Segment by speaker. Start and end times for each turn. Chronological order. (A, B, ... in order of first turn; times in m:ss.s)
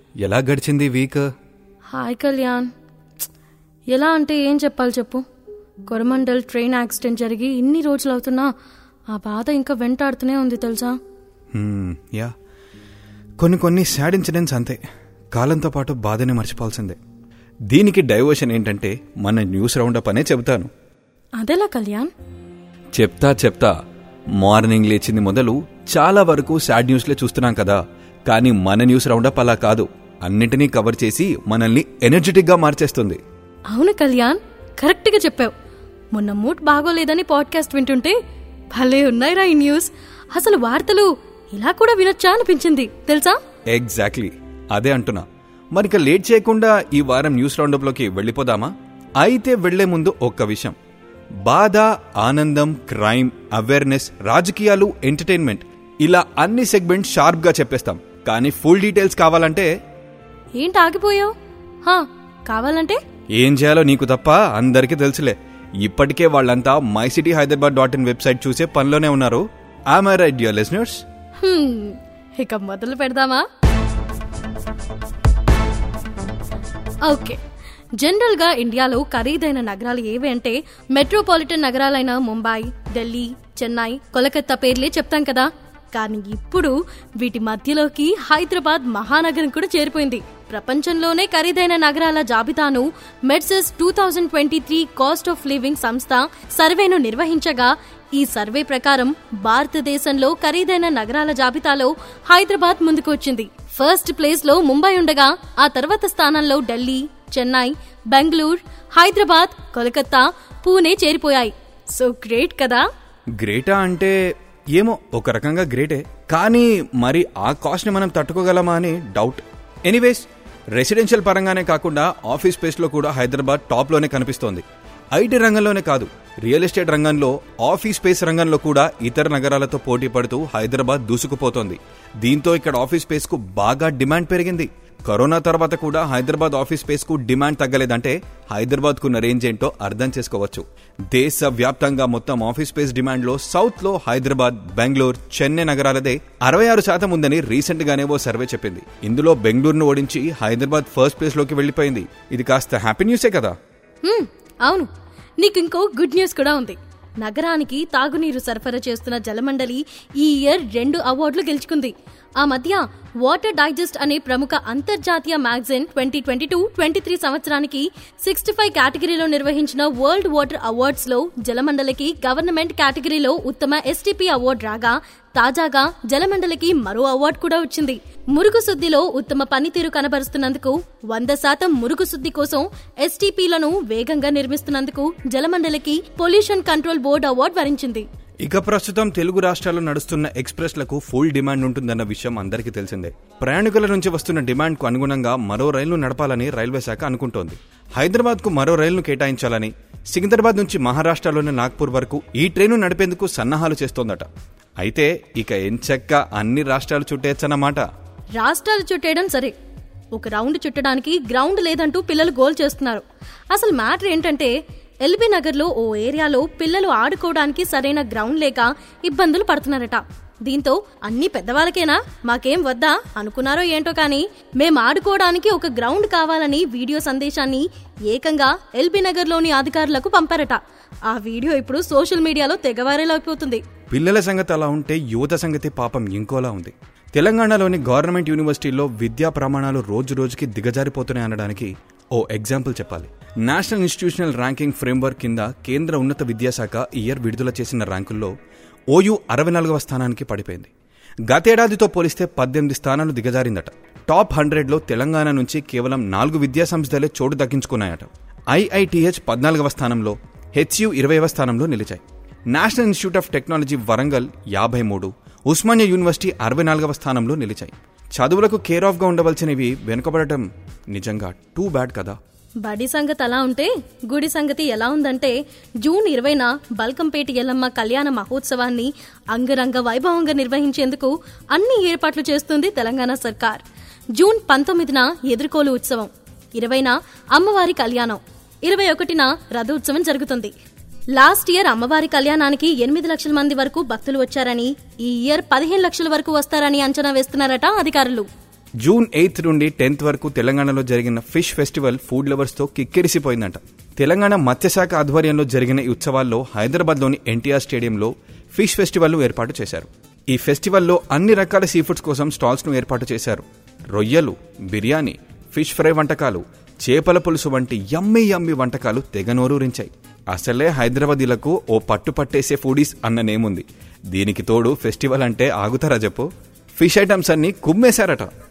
0:00.2-0:01.2 A
0:01.9-0:02.7 B
0:03.9-0:05.2 B
0:05.9-0:08.5 B
0:09.1-0:11.0 B
0:11.5-0:12.3 A
0:13.4-0:14.8 A
0:15.3-0:17.0 A
0:17.7-0:20.7 A
0:21.4-0:22.1 B
0:22.9-0:23.7 A
0:24.4-0:33.2 A
0:33.7-0:35.5 B
0:36.1-0:38.2 B
0:38.7-0:43.4 B
0:43.7-0:50.8 A
0:51.4-0:59.7 A
1:00.6-1:01.3 B
1:01.8-1:03.0 B
1:03.4-1:11.0 A
1:11.4-1:13.4 B
1:17.0-1:17.4 B
1:18.0-1:52.8 B
1:53.4-1:54.2 A
1:54.7-2:04.6 A
2:05.1-2:33.6 A
2:34.0-2:34.9 B
2:35.4-3:08.0 B
3:08.4-3:24.3 A
3:24.8-3:27.8 A
3:28.4-3:29.5 B
3:30.1-3:34.5 B
3:35.0-3:53.6 B
3:53.9-4:08.3 A
4:08.9-4:10.7 A
4:11.3-4:32.2 A
4:32.6-4:43.6 B
4:44.2-4:50.5 B
4:51.1-4:58.3 B
4:58.8-5:28.3 A